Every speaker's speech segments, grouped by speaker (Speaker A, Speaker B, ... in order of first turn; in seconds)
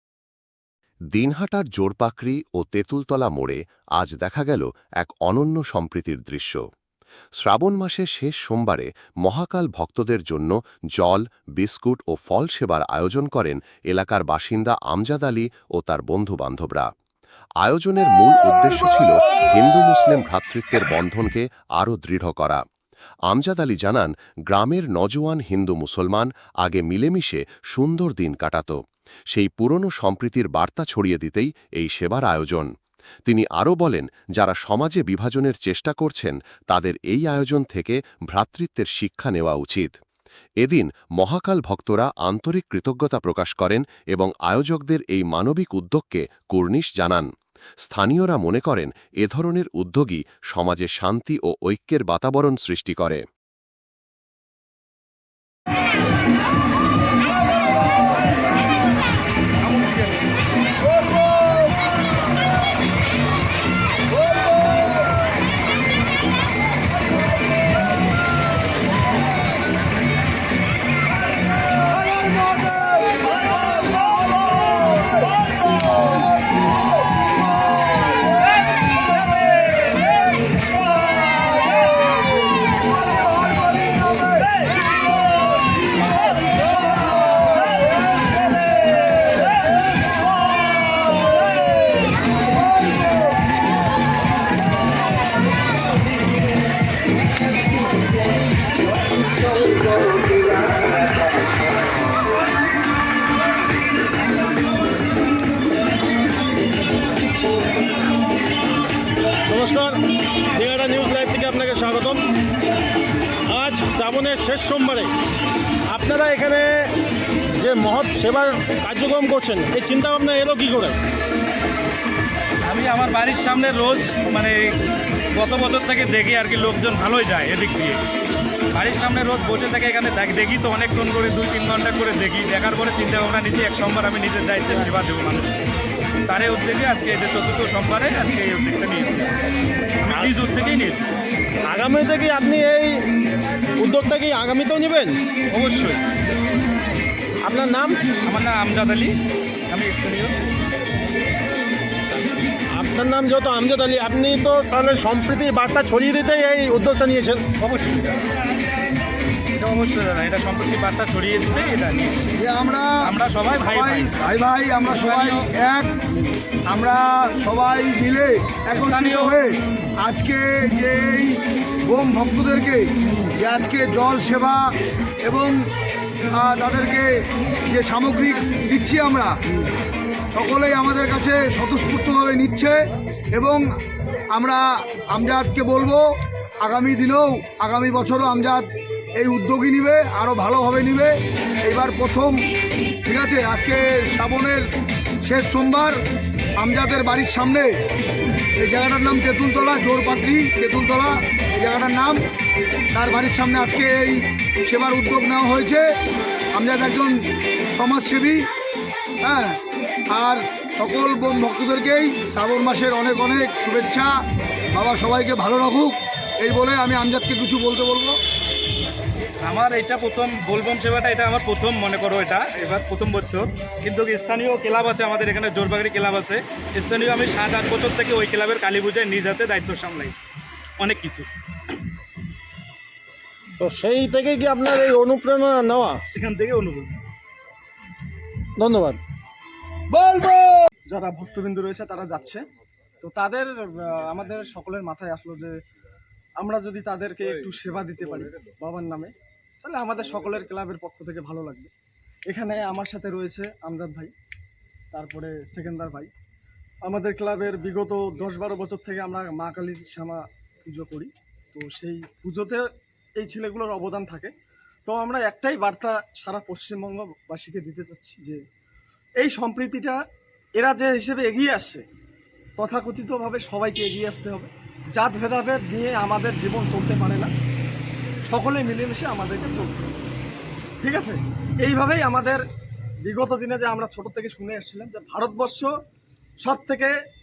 Speaker A: 1.1-6.6, 7.4-16.9, 17.6-22.6, 23.3-28.8, 29.3-32.7, 33.3-39.9, 40.6-47.3, 47.8-53.2
Speaker B: 59.6-60.2, 240.9-242.4, 243.0-245.6, 246.4-251.7, 252.3-254.1, 254.9-256.1, 256.8-264.3, 264.9-268.4, 269.2-270.0, 270.6-271.8, 272.6-277.3, 278.3-279.9, 280.8-282.4, 283.0-285.7, 286.4-286.9
Speaker C: 109.5-112.2, 113.5-115.1, 115.9-117.0, 117.5-121.0, 141.7-143.1, 143.8-145.2, 147.4-148.2, 152.7-157.5, 233.6-236.0, 238.6-239.0
Speaker D: 122.7-124.8, 125.3-128.0, 128.7-135.6, 136.3-139.3, 140.0-141.1, 145.5-146.0, 148.3-149.2, 149.7-150.4, 157.6-158.2, 159.5-162.3, 163.0-164.1, 164.9-165.5, 168.8-169.4, 219.4-230.2, 230.8-231.3, 236.1-236.9
Speaker E: 162.4-163.0, 163.6-174.7, 175.2-175.6, 176.4-179.4, 180.3-182.8, 183.3-183.7, 184.3-186.1, 186.6-192.4, 193.1-194.7, 195.2-196.0, 196.6-197.7, 198.6-202.2, 202.9-205.9, 206.5-207.2, 207.7-208.4, 209.2-209.6, 210.1-214.1, 214.7-218.2, 240.1-240.4